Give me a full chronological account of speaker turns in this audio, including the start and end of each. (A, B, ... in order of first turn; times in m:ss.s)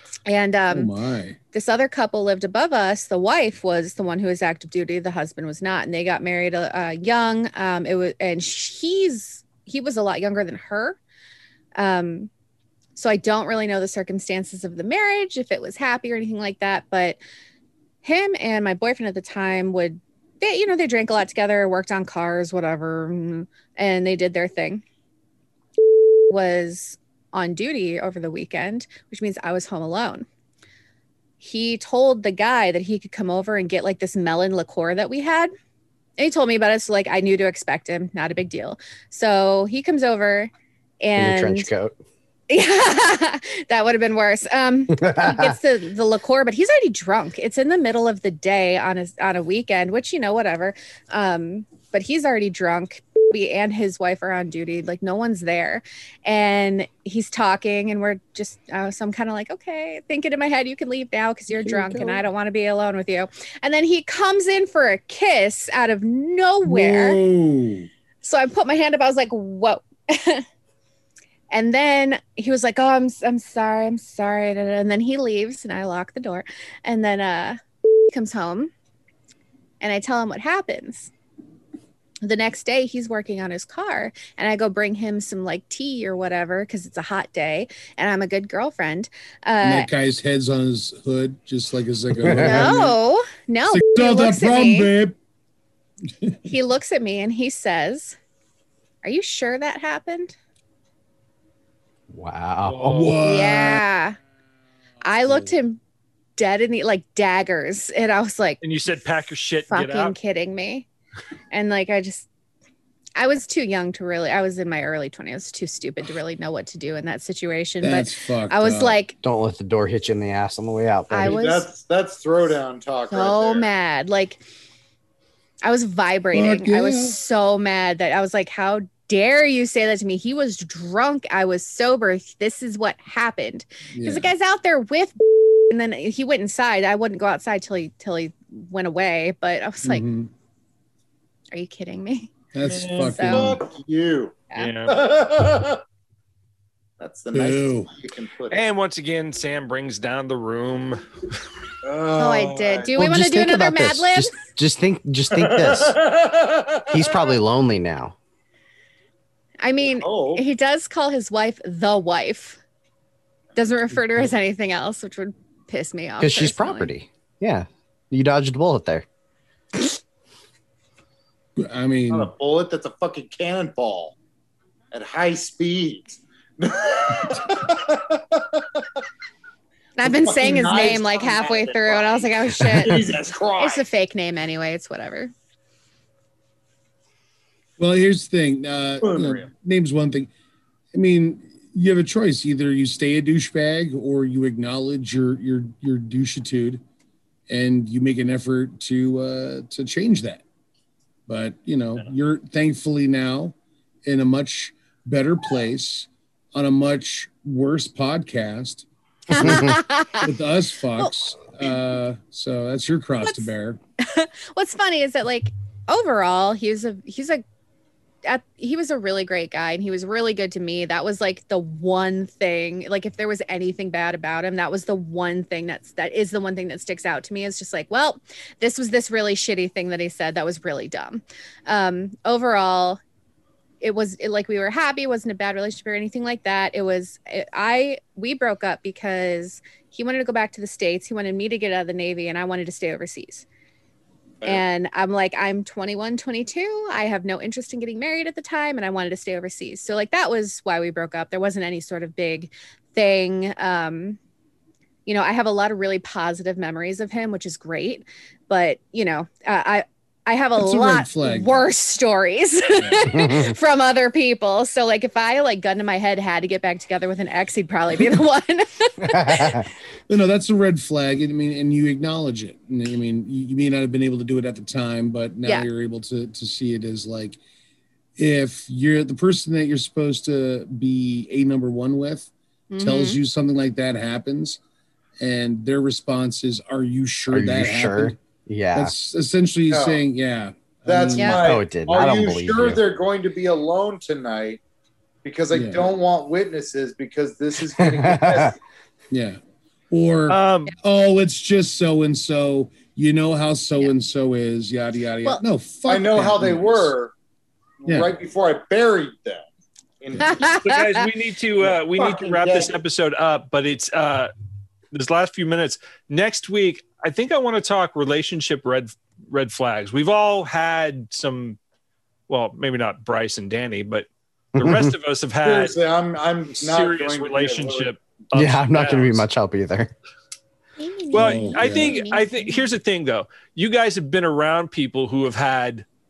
0:00.3-0:00.9 A
0:00.7-0:01.4 B
0:01.5-0:11.0 A
0:11.8-0:12.3 A
0:13.0-0:17.2 A
0:18.0-0:24.8 A
0:26.3-0:30.3 A
0:31.4-0:35.5 A
0:36.2-0:41.7 A
0:41.2-0:42.0 C
0:42.5-1:07.2 A
0:44.9-0:45.6 C
1:01.6-1:02.2 B
1:06.6-1:07.9 B
1:08.2-1:10.4 A
1:11.5-1:18.7 A
1:19.8-1:21.1 A
1:22.2-1:29.9 A
1:29.6-1:33.0 B
1:32.2-1:32.6 C
1:32.4-1:34.9 A
1:33.7-1:35.2 B
1:36.5-1:38.2 A
1:39.0-1:40.4 A
1:42.1-1:43.1 C
1:42.6-1:43.2 D
1:42.9-1:43.8 B
1:43.2-1:44.2 A
1:45.0-1:45.8 A
1:46.4-1:48.6 A
1:48.6-1:50.1 D
1:49.7-1:50.9 A
1:51.5-1:52.3 A
1:53.2-1:59.2 A
1:57.8-1:59.0 B
1:59.2-2:01.4 C
2:01.1-2:01.7 A
2:01.2-2:03.7 E
2:03.1-2:04.4 A
2:05.6-2:15.2 A
2:06.3-2:07.2 B
2:13.9-2:14.3 B
2:15.7-2:20.0 A
2:19.8-2:20.3 B
2:21.5-2:22.3 A
2:22.5-2:23.6 B
2:22.9-2:25.8 E
2:23.0-2:23.6 A
2:24.6-2:25.0 D
2:27.0-2:28.6 E
2:27.3-2:27.9 B
2:28.5-2:31.0 D
2:31.8-2:32.9 E
2:32.2-2:34.4 A
2:33.0-2:36.0 C
2:35.3-2:37.2 E
2:36.9-2:38.2 C
2:39.6-2:42.6 A
2:39.8-2:40.4 E
2:43.6-2:46.9 A
2:46.2-2:49.0 C
2:51.6-2:52.3 B
2:52.1-2:54.2 E
2:54.9-2:59.0 E
3:00.0-3:03.0 A
3:00.0-3:03.8 E
3:03.6-3:05.3 A
3:07.8-3:10.3 B
3:09.0-3:09.5 E
3:10.9-3:16.8 B
3:17.5-3:20.4 B
3:21.3-3:33.8 B
3:29.3-3:30.3 A
3:33.2-3:33.5 A
3:34.0-3:37.4 A
3:38.2-3:53.0 A
3:53.8-4:03.5 A
4:04.4-4:14.2 A
4:15.1-4:29.7 A
4:20.6-4:21.6 B
4:22.8-4:23.1 B
4:23.1-4:23.5 C
4:29.0-4:29.7 C
4:30.1-4:37.4 B
4:38.2-4:44.6 B
4:42.7-4:43.2 A
4:45.2-4:48.2 B
4:47.3-4:49.0 C
4:48.8-4:51.4 B
4:49.7-4:50.0 E
4:50.9-4:54.6 E
4:51.2-4:51.4 A
4:51.4-4:52.8 C
4:55.2-4:58.6 E
4:55.5-4:55.9 B
4:57.8-4:58.5 C
4:59.1-4:59.4 B
4:59.9-5:06.9 B
5:00.3-5:00.7 D
5:05.9-5:07.1 E
5:07.8-5:09.4 E
5:10.0-5:10.6 E
5:10.2-5:10.7 A
5:10.4-5:14.3 D
5:11.6-5:12.7 E
5:14.9-5:21.6 D
5:22.3-5:25.8 D
5:24.6-5:24.9 C
5:25.4-5:27.9 E
5:26.6-5:29.2 D
5:28.3-5:29.9 C
5:30.8-5:32.7 A
5:31.1-5:32.1 B
5:31.1-5:35.9 D